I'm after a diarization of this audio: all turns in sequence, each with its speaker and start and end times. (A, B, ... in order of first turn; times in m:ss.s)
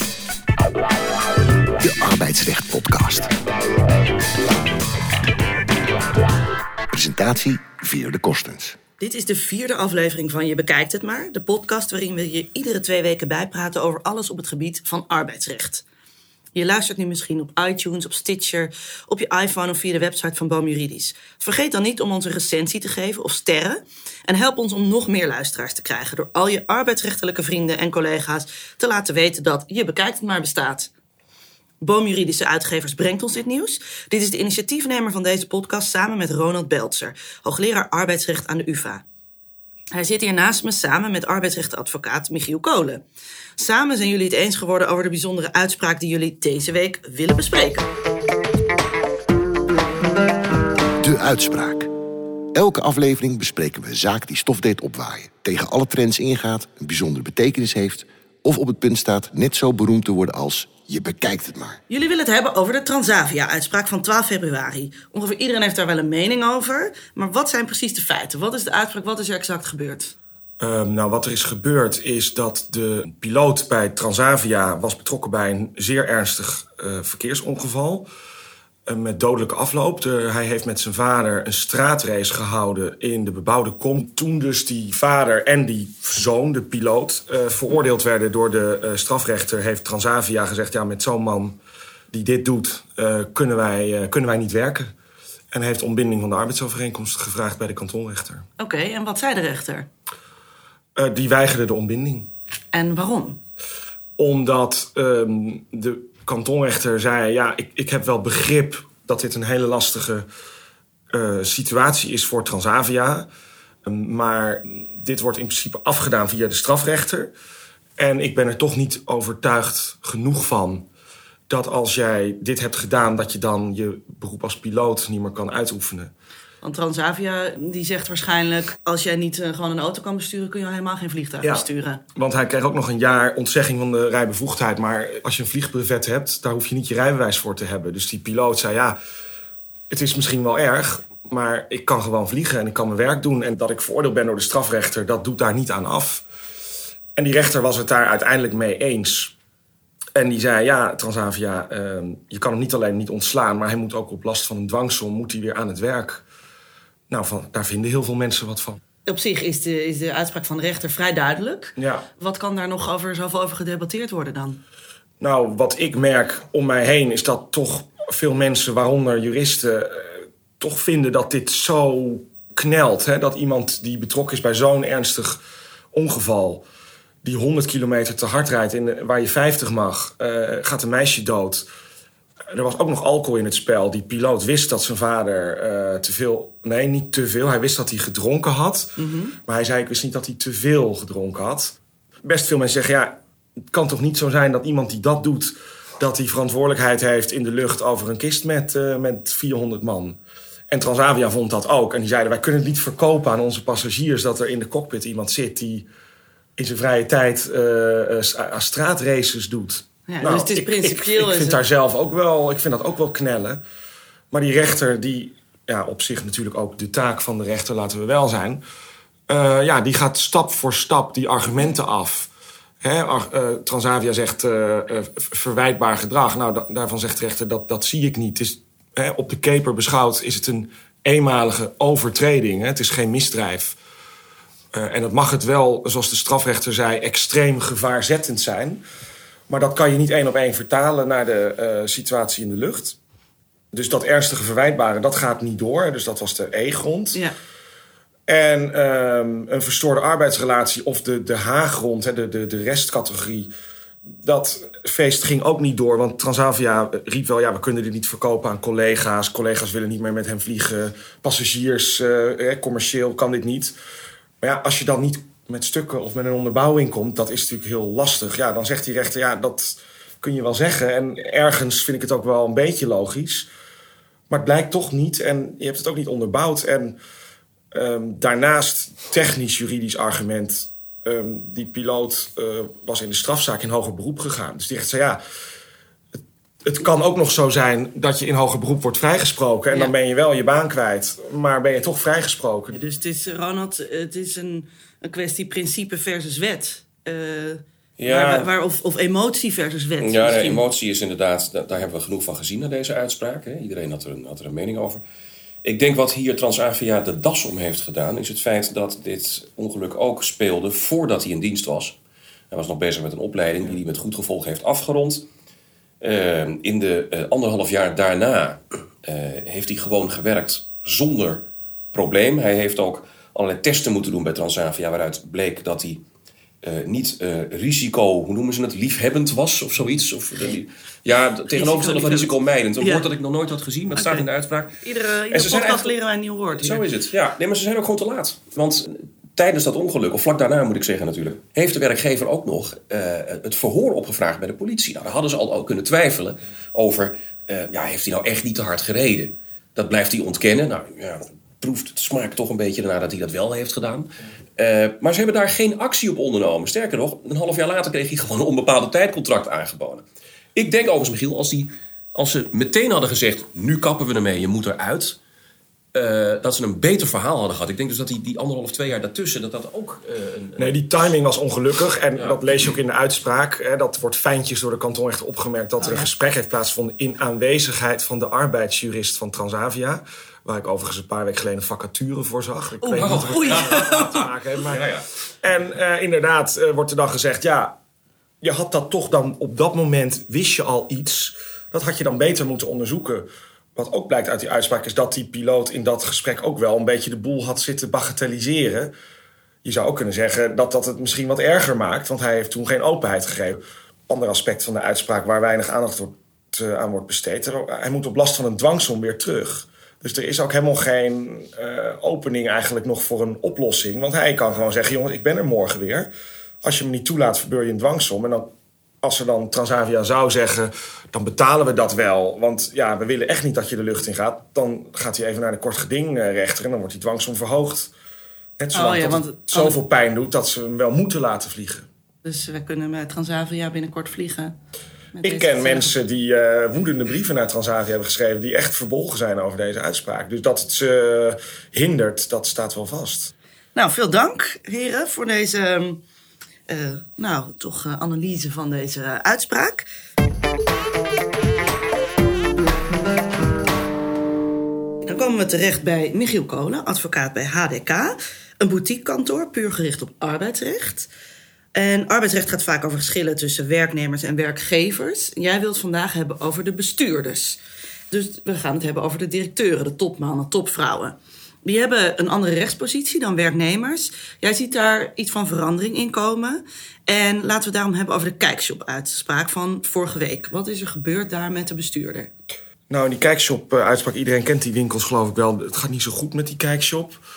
0:01.8-0:03.3 A
0:06.9-0:08.8 A
0:09.0-0:15.8 B
0:16.5-0:30.9 B
0:31.8-0:39.0 B
0:39.9-0:43.0 B
0:43.6-0:47.9 B
0:51.0-0:51.9 A
0:52.5-1:01.8 A
1:01.9-1:10.1 B
1:10.6-1:18.1 C
1:18.8-1:31.6 C
1:32.1-1:34.9 C
1:35.5-1:38.4 C
1:38.6-1:39.9 B
1:41.0-1:42.3 C
1:42.7-1:43.4 B
1:44.2-1:50.2 C
1:51.1-1:53.3 C
1:53.8-1:57.3 C
1:58.0-2:00.9 C
2:01.5-2:06.1 C
2:06.6-2:12.0 B
2:11.4-2:19.0 C
2:19.9-2:26.2 C
2:27.2-2:29.3 C
2:30.2-2:36.2 C
2:37.1-2:38.8 C
2:39.0-2:44.6 B
2:41.8-2:42.0 C
2:45.2-2:56.6 C
2:57.2-3:01.6 C
3:02.5-3:13.2 C
3:09.0-3:09.4 B
3:13.7-3:20.2 C
3:20.7-3:25.9 C
3:26.6-3:33.6 C
3:30.1-3:31.6 B
3:34.3-3:38.6 C
3:39.3-3:42.3 C
3:42.8-3:53.8 C
3:54.7-3:58.8 C
3:59.5-4:03.0 C
4:03.7-4:07.2 C
4:08.3-4:13.5 C
4:14.1-4:23.7 C
4:24.4-4:33.5 C
4:34.3-4:37.0 C
4:37.7-4:45.2 C
4:46.6-4:52.8 C
4:52.7-5:00.6 B
4:58.0-4:58.5 D
5:00.0-5:05.0 D
5:05.6-5:12.0 D
5:12.5-5:15.2 D
5:16.0-5:26.0 D
5:26.6-5:34.8 D
5:31.5-5:33.1 B
5:34.0-5:34.2 B
5:34.8-5:36.8 B
5:35.3-5:35.9 D
5:36.6-6:05.2 D
6:05.9-6:10.7 D
6:10.6-6:27.8 C
6:15.8-6:16.1 B
6:22.8-6:24.3 B
6:23.0-6:23.8 D
6:24.7-6:25.0 D
6:28.4-6:38.9 C
6:39.6-6:56.1 C
6:56.6-6:58.5 C
6:59.0-7:07.9 C
7:08.6-7:11.8 C
7:08.7-7:09.8 B
7:12.2-7:14.5 B
7:15.1-7:15.9 B
7:15.2-7:23.3 C
7:23.7-7:26.0 B
7:26.7-7:29.9 B
7:35.1-7:41.1 B
7:41.7-7:47.6 B
7:48.1-8:02.3 B
8:02.9-8:07.2 C